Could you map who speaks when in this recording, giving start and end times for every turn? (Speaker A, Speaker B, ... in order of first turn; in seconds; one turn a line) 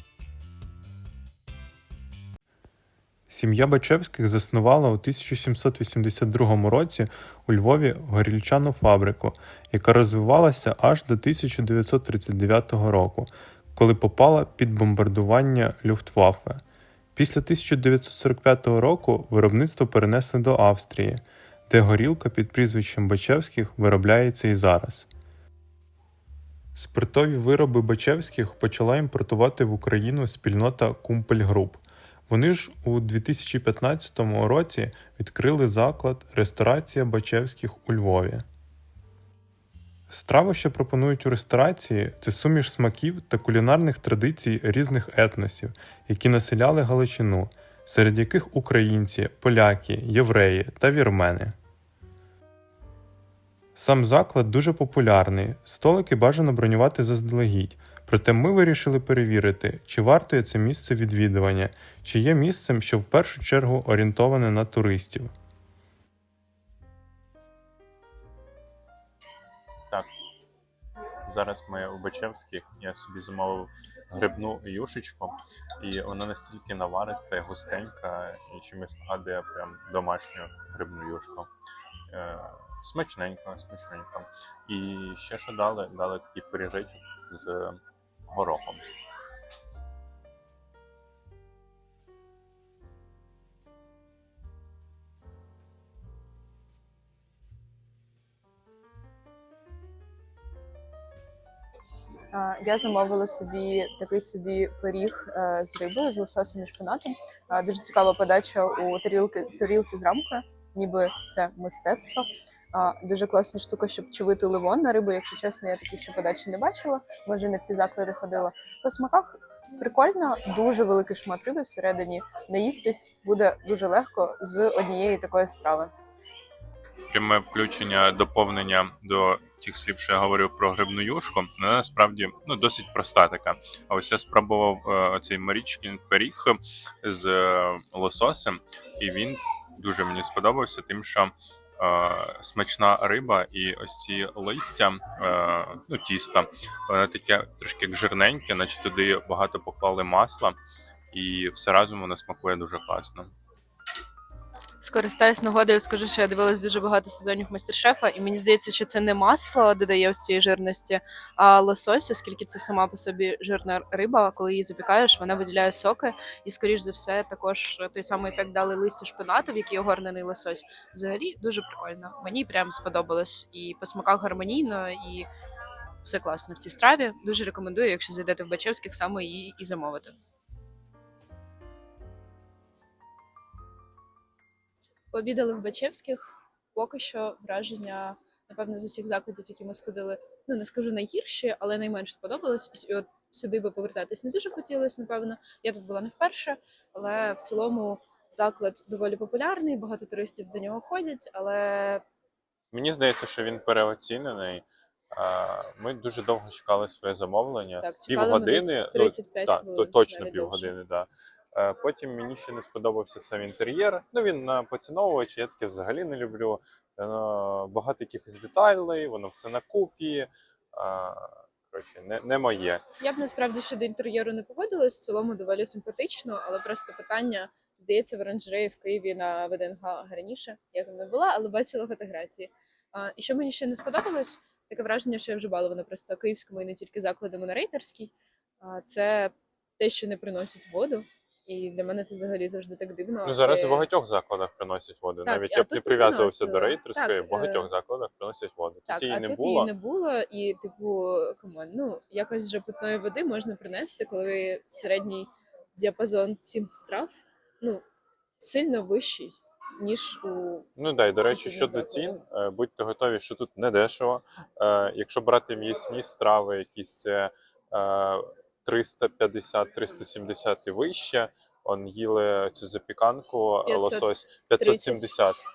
Speaker A: 3.3-16.6
Speaker A: 17.1-25.1
Speaker A: 26.7-38.4
Speaker A: 40.1-51.5
Speaker A: 53.8-65.3
Speaker B: 71.2-81.5
Speaker B: 82.1-88.8
Speaker C: 102.3-125.9
Speaker B: 127.1-150.6
Speaker B: 151.1-153.3
Speaker C: 154.8-175.3
Speaker C: 176.0-180.1
Speaker C: 185.1-186.2
Speaker C: 186.7-202.0
Speaker B: 202.7-222.8
Speaker C: 207.8-210.7
Speaker C: 223.0-243.9
Speaker B: 243.2-249.7
Speaker C: 245.2-247.7
Speaker C: 248.9-257.8
Speaker C: 258.4-260.7
Speaker B: 260.8-275.4
Speaker C: 261.2-262.1
Speaker C: 273.6-275.2